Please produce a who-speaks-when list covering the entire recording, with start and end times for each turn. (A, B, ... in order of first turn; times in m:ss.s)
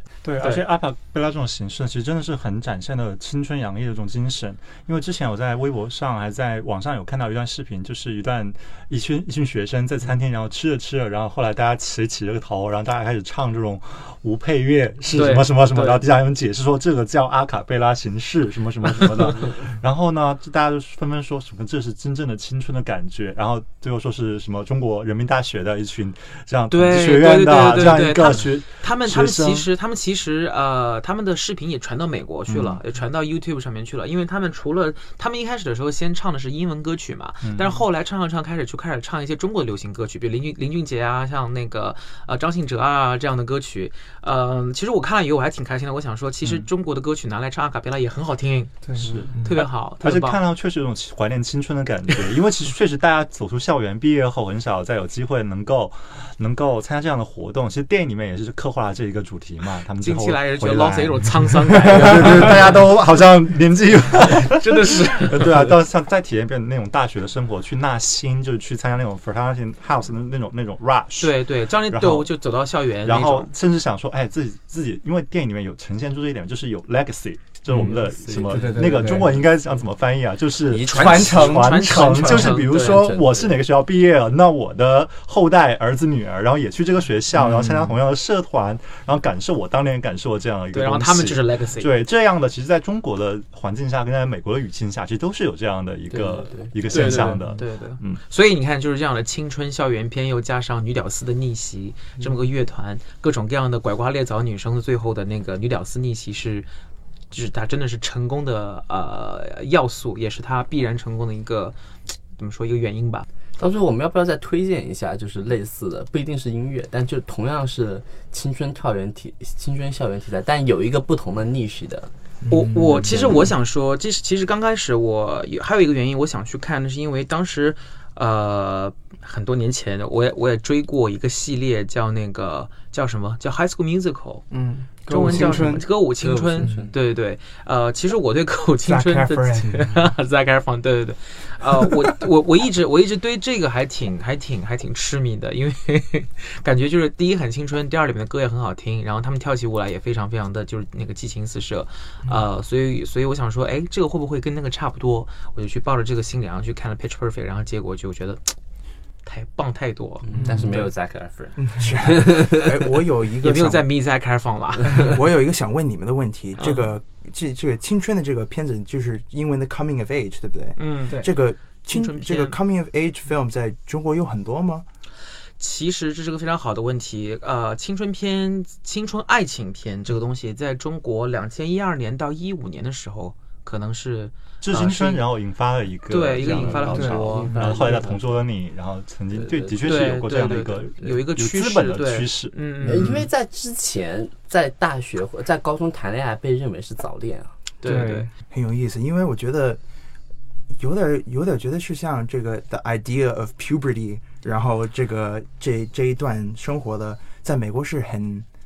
0:00.2-0:29.7 A
0:00.4-0:00.6 B
0:15.1-0:16.0 B
0:26.7-0:50.4 B
0:32.5-0:32.8 A
0:37.4-0:37.8 A
0:48.9-0:49.6 C
0:49.0-1:12.3 A
1:00.0-1:02.8 B
1:04.3-1:05.7 B
1:11.2-1:13.5 B
1:13.0-1:38.2 A
1:18.2-1:18.8 D
1:18.3-1:19.4 C
1:20.7-1:23.6 D
1:20.8-1:23.0 B
1:20.9-1:21.8 C
1:30.7-1:31.9 B
1:36.1-1:37.1 D
1:36.9-1:46.7 B
1:37.0-1:37.5 C
1:47.3-1:53.3 B
1:53.6-2:02.1 D
2:02.5-2:14.5 B
2:02.6-2:03.0 E
2:03.0-2:03.5 D
2:14.5-2:15.9 C
2:15.0-2:38.5 B
2:16.2-2:16.9 D
2:18.9-2:19.3 C
2:19.3-2:19.6 E
2:39.2-2:40.8 B
2:40.2-2:42.8 D
2:40.3-2:40.9 C
2:41.8-2:43.9 E
2:43.4-2:45.2 B
2:44.9-2:54.8 E
2:46.6-2:46.9 B
2:50.8-2:51.3 B
2:51.9-2:52.6 B
2:55.6-3:05.2 B
3:04.6-3:13.2 A
3:06.1-3:07.6 B
3:06.5-3:08.2 D
3:06.9-3:07.8 C
3:09.3-3:10.0 D
3:09.8-3:13.1 B
3:12.8-3:17.5 D
3:17.8-3:18.3 B
3:17.8-3:18.3 C
3:18.5-3:19.8 E
3:20.7-3:28.4 E